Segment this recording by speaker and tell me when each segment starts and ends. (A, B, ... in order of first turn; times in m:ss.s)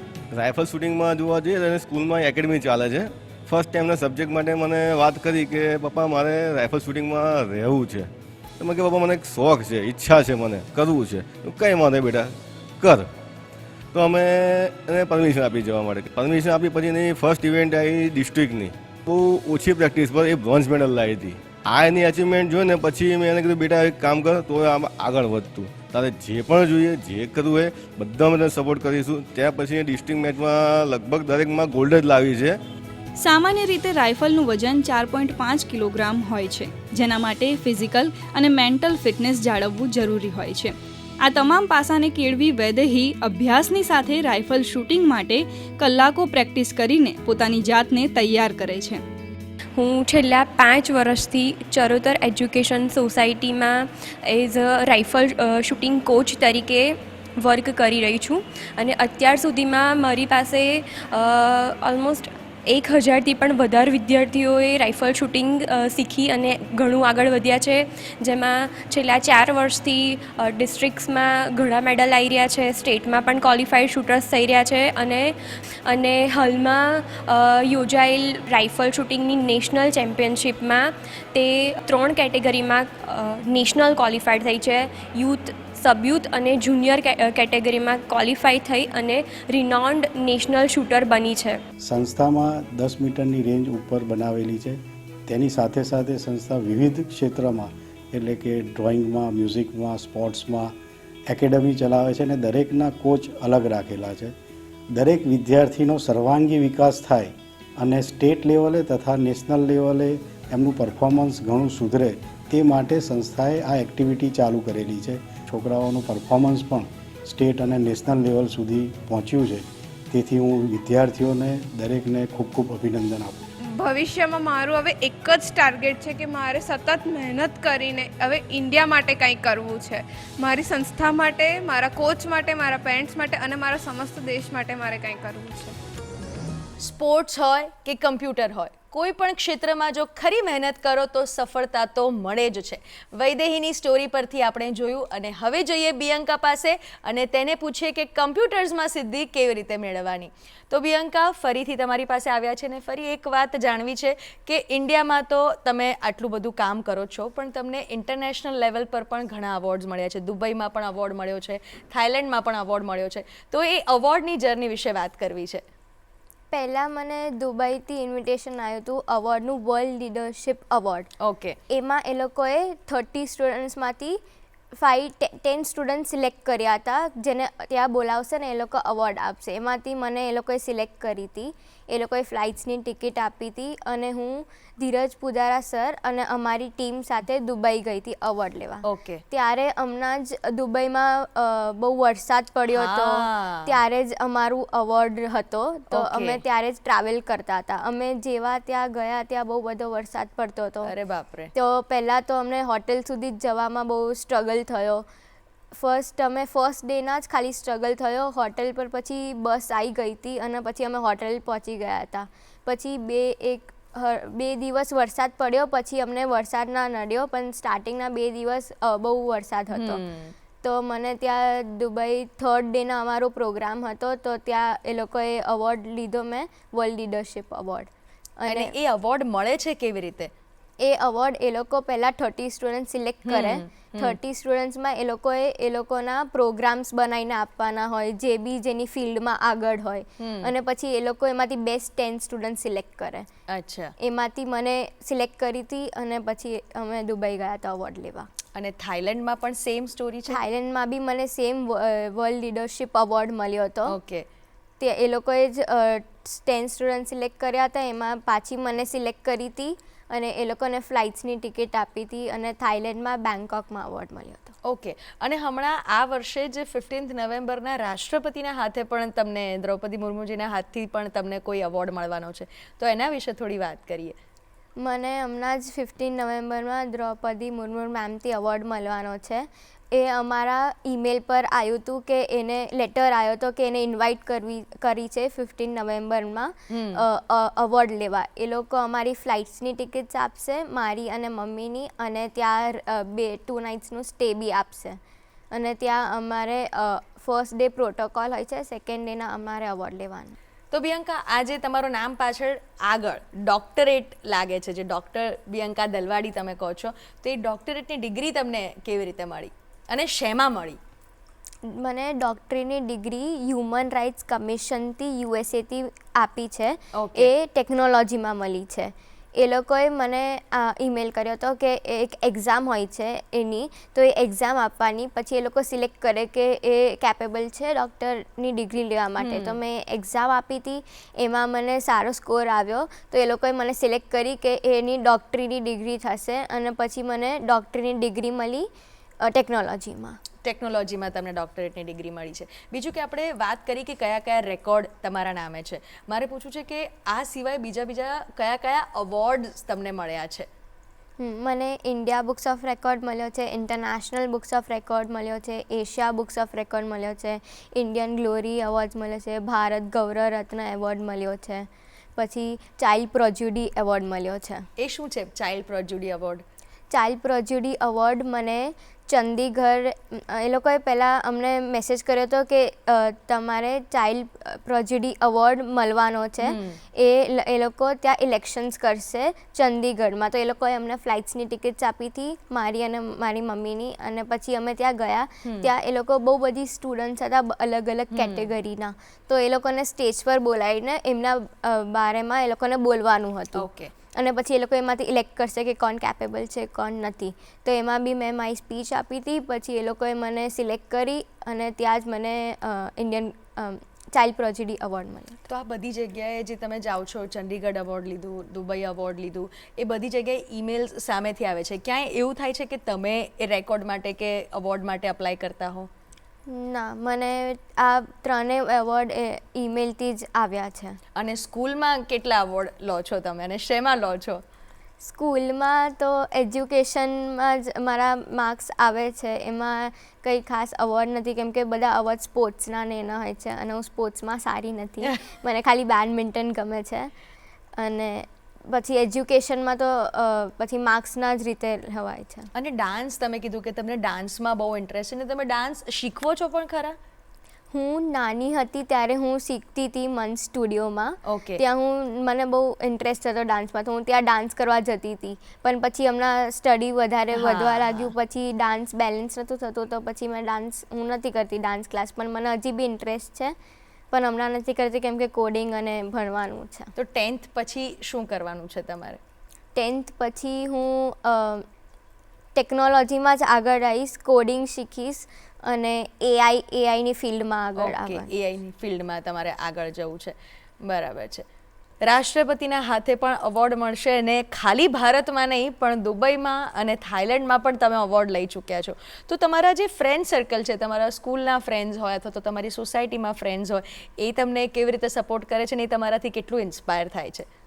0:00.3-0:13.1 A
0:13.9-0:32.6 A
0:33.2-0:49.0 B
0:49.7-1:31.6 C
1:31.8-1:40.7 D
1:41.3-1:44.3 D
1:44.9-2:03.5 D
2:03.7-2:15.7 E
2:16.8-2:45.6 F
2:46.5-2:51.1 G
2:51.2-2:51.6 F
2:51.7-2:54.2 G
2:54.8-3:20.9 G
3:08.8-3:09.2 F
3:12.7-3:13.7 F
3:15.9-3:16.4 F
3:20.8-3:21.5 F
3:21.5-3:25.0 G
3:25.7-3:40.0 G
3:39.7-3:40.3 F
3:40.6-3:48.7 G
3:48.5-3:50.3 F
3:50.8-4:03.3 G
3:53.3-3:54.2 F
4:00.2-4:00.5 F
4:03.5-4:03.9 F
4:04.0-4:08.3 G
4:08.5-4:10.4 F
4:10.3-4:14.0 G
4:13.9-4:14.2 F
4:14.8-4:24.5 G
4:24.6-4:34.2 F
4:34.8-4:55.0 G
4:46.7-4:47.0 F
4:55.5-5:00.4 G
5:00.7-5:10.8 F
5:11.6-5:38.7 G
5:16.9-5:17.3 F
5:29.2-5:29.6 F
5:39.2-5:40.2 G
5:40.4-5:50.5 F
5:51.2-6:04.7 G
6:04.8-6:06.4 F
6:06.9-6:45.4 G
6:16.4-6:16.8 F
6:25.4-6:25.7 F
6:28.1-6:28.5 F
6:33.5-6:33.9 F
6:45.5-6:55.9 F
6:56.5-7:01.0 G
7:01.2-7:04.4 F
7:05.0-7:17.1 G
7:17.8-7:22.5 G
7:22.5-7:27.0 F
7:27.7-7:43.5 G
7:31.2-7:31.6 F
7:37.3-7:38.1 F
7:44.1-7:46.9 G
7:47.0-7:49.2 F
7:49.7-7:51.6 G
7:52.5-7:58.3 G
7:57.8-8:01.4 F
8:02.0-8:17.5 F